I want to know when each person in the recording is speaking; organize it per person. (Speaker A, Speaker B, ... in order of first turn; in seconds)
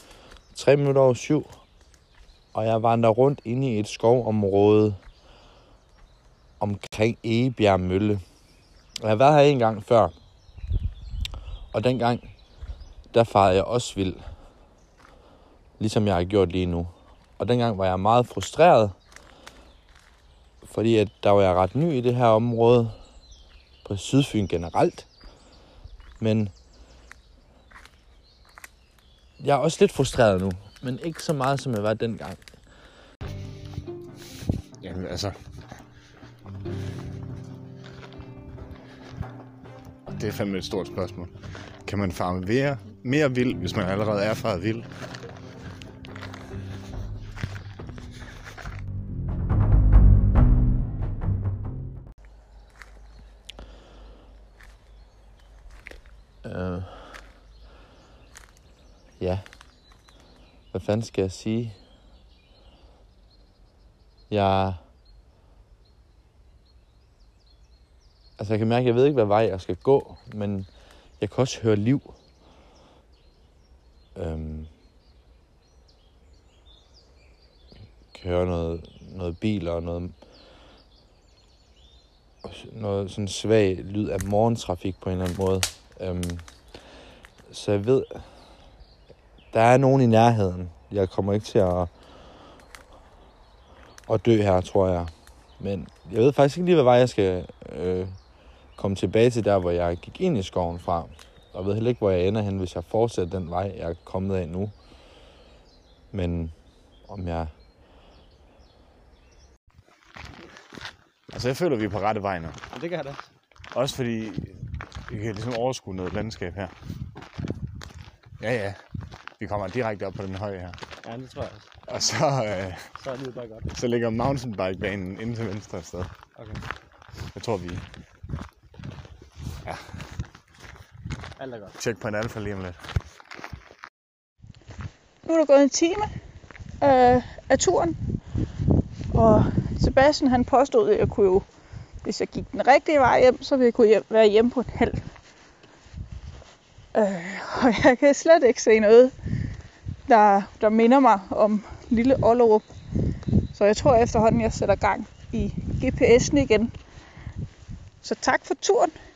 Speaker A: 0.5-1.6, 2.5-5.0, 6.6-8.2, 9.0-10.1, 11.7-12.3, 13.1-14.3, 15.8-19.0, 20.6-23.0, 23.8-25.1, 26.2-26.5, 29.4-32.5, 56.4-57.2, 59.2-59.6, 60.7-61.8, 64.3-64.8, 68.4-72.2, 74.2-74.7, 78.1-80.2, 82.4-86.9, 87.5-88.6, 89.5-92.0, 94.1-104.8, 106.1-107.5
Speaker B: 34.8-35.3, 40.1-41.3, 41.8-44.9, 111.3-112.6, 113.7-116.7, 118.4-118.8, 119.4-120.8, 121.9-122.9, 123.7-126.1, 127.3-127.8, 131.8-132.8
Speaker C: 112.7-113.2, 121.0-121.7, 123.0-123.7, 126.4-126.6, 131.4-131.8
Speaker D: 135.2-136.1, 136.8-138.0, 139.1-141.4, 142.0-145.0, 146.9-149.1, 150.1-152.7, 153.5-156.7, 158.0-158.9